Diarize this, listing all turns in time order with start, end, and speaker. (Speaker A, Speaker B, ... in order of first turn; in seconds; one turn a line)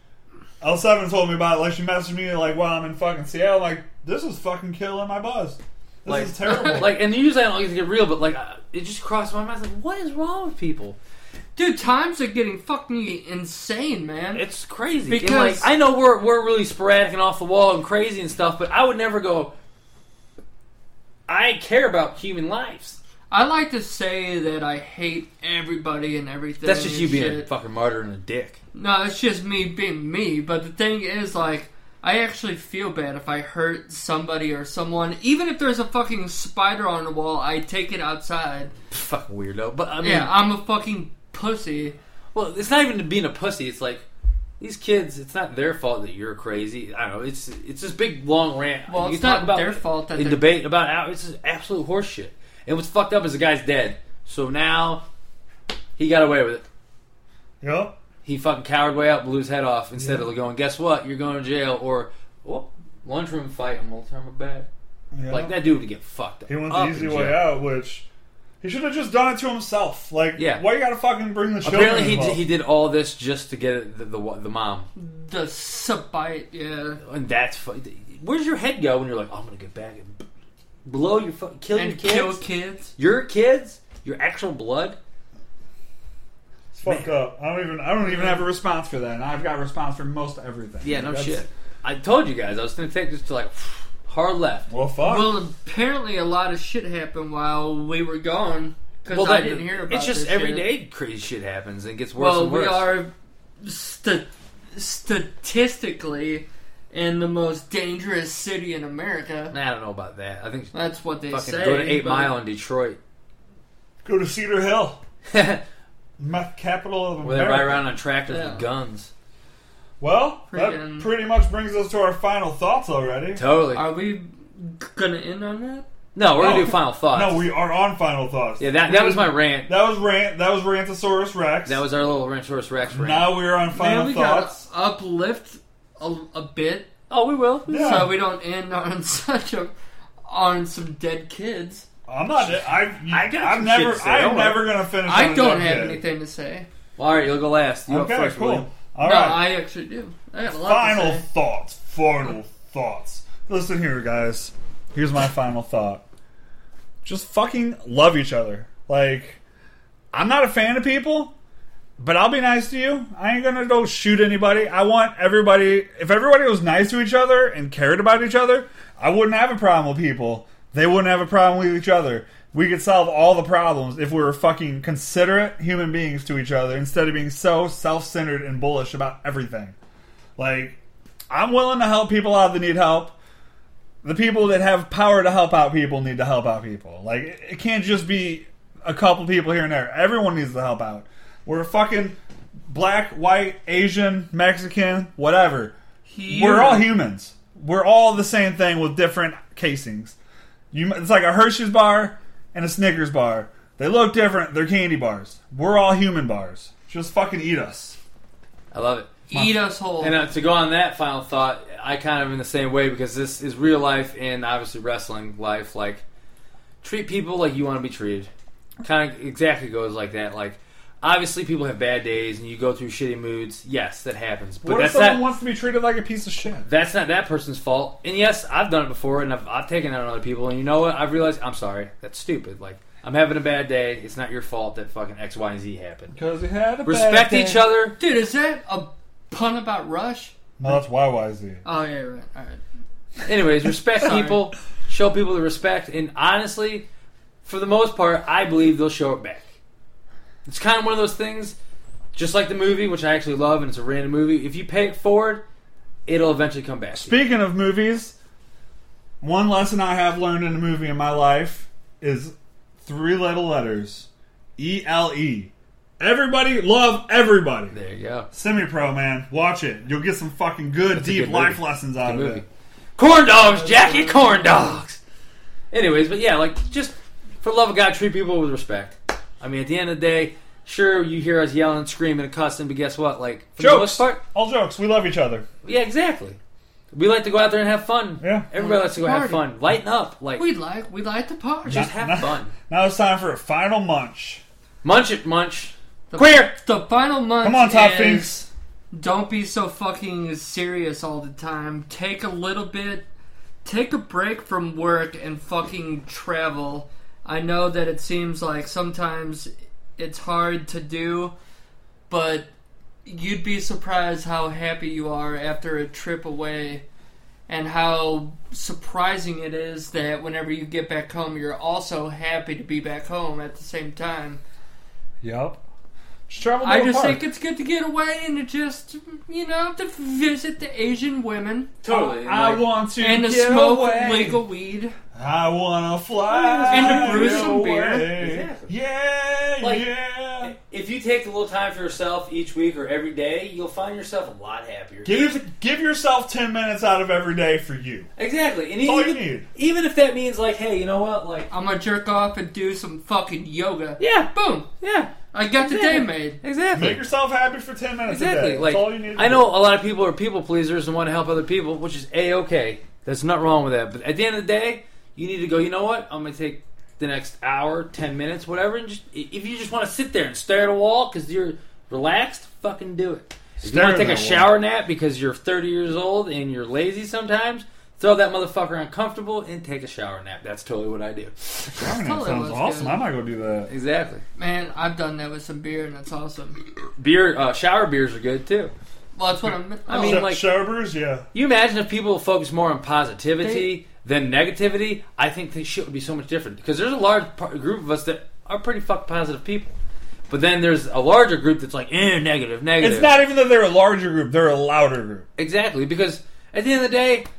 Speaker A: 0.6-7.0
Speaker B: 6.0-11.0
Speaker C: 6.5-6.8
Speaker C: 11.6-14.4
Speaker B: 14.3-19.5
Speaker C: 15.1-15.7
Speaker B: 21.3-23.0
Speaker C: 23.3-27.4
Speaker B: 26.6-28.6
Speaker C: 28.7-38.7
Speaker B: 38.9-40.3
Speaker C: 40.0-42.0
Speaker B: 42.3-44.0
Speaker B: 44.6-55.0
Speaker C: 48.9-50.4
Speaker B: 56.0-56.6
Speaker A: 57.6-58.0
Speaker B: 58.2-64.7
Speaker A: 60.0-60.3
Speaker A: 65.1-65.5
Speaker B: 65.3-67.5
Speaker A: 66.5-68.0
Speaker A: 68.6-72.4
Speaker B: 70.4-70.6
Speaker B: 71.6-74.9
Speaker C: 75.0-77.0
Speaker B: 77.0-80.3
Speaker B: 80.9-82.4
Speaker C: 81.7-82.9
Speaker B: 83.0-85.0
Speaker A: 86.7-91.5
Speaker C: 88.0-88.4
Speaker B: 90.8-94.7
Speaker A: 94.7-95.4
Speaker C: 95.0-100.7
Speaker B: 99.1-102.9
Speaker C: 102.2-109.5
Speaker B: 109.5-110.7
Speaker C: 110.7-112.3
Speaker B: 111.3-113.0
Speaker A: 114.0-115.0
Speaker B: 115.3-115.6
Speaker A: 116.2-117.9
Speaker B: 117.2-119.1
Speaker C: 118.3-118.6
Speaker A: 120.0-123.4
Speaker C: 120.5-121.1
Speaker B: 123.3-123.8
Speaker C: 123.7-125.9
Speaker B: 126.1-127.5
Speaker A: 126.3-131.8
Speaker B: 128.6-129.7
Speaker B: 131.7-133.4
Speaker A: 132.9-134.6
Speaker C: 133.7-136.9
Speaker B: 137.1-138.1
Speaker A: 137.7-138.1
Speaker C: 137.7-139.7
Speaker C: 140.3-141.9
Speaker A: 142.1-146.0
Speaker B: 142.4-144.6
Speaker C: 145.0-146.7
Speaker B: 147.0-148.7
Speaker A: 147.9-149.4
Speaker C: 149.0-151.2
Speaker A: 150.5-156.0
Speaker A: 157.0-159.4
Speaker A: 160.1-161.3
Speaker A: 162.0-179.8
Speaker A: 180.4-180.8
Speaker A: 181.3-183.1
Speaker A: 184.0-192.2
Speaker A: 192.7-195.7
Speaker C: 196.1-196.9
Speaker A: 196.3-200.2
Speaker A: 200.7-208.0
Speaker B: 208.7-216.0
Speaker C: 209.3-210.2
Speaker B: 216.8-218.3
Speaker B: 218.8-225.3
Speaker A: 224.6-226.7
Speaker B: 226.7-236.1
Speaker A: 236.1-237.6
Speaker B: 236.8-238.0
Speaker C: 238.0-240.3
Speaker A: 240.6-241.6
Speaker C: 241.6-242.6
Speaker B: 243.2-246.9
Speaker C: 244.0-244.4
Speaker B: 247.4-249.4
Speaker B: 250.4-251.6
Speaker B: 252.1-255.4
Speaker B: 256.1-257.2
Speaker A: 256.9-258.2
Speaker A: 259.2-262.3
Speaker A: 262.9-267.7
Speaker B: 267.7-268.3
Speaker A: 268.3-272.4
Speaker B: 270.9-275.0
Speaker C: 273.3-274.8
Speaker B: 275.7-284.2
Speaker A: 283.6-285.4
Speaker B: 285.6-286.4
Speaker B: 286.9-290.4
Speaker A: 288.2-288.5
Speaker C: 288.6-289.4
Speaker C: 290.4-291.9
Speaker B: 291.7-292.5
Speaker A: 291.7-294.4
Speaker B: 294.8-296.5
Speaker C: 296.1-298.4
Speaker A: 297.4-298.5
Speaker C: 298.9-303.1
Speaker C: 303.6-311.3
Speaker C: 312.1-312.5
Speaker C: 313.1-316.8
Speaker C: 317.5-324.4
Speaker A: 325.2-325.6
Speaker A: 326.3-327.2
Speaker C: 326.6-331.7
Speaker B: 331.8-332.6
Speaker A: 331.9-334.4
Speaker C: 333.0-334.9
Speaker A: 335.1-340.5
Speaker B: 336.3-338.8
Speaker C: 336.7-338.1
Speaker B: 339.6-339.9
Speaker B: 340.4-345.4
Speaker A: 345.1-348.1
Speaker B: 348.2-351.5
Speaker A: 348.8-349.5
Speaker C: 351.5-354.7
Speaker B: 354.0-357.0
Speaker C: 355.3-356.4
Speaker A: 356.7-359.5
Speaker B: 358.1-381.8
Speaker A: 373.6-374.5
Speaker A: 381.8-383.7
Speaker C: 382.0-383.0
Speaker B: 383.7-384.2
Speaker C: 384.4-386.6
Speaker B: 387.0-388.7
Speaker C: 389.2-390.3
Speaker B: 389.9-390.6
Speaker A: 389.9-391.3
Speaker B: 391.3-399.7
Speaker C: 393.4-393.7
Speaker B: 400.3-403.1
Speaker A: 402.8-405.3
Speaker B: 405.4-407.3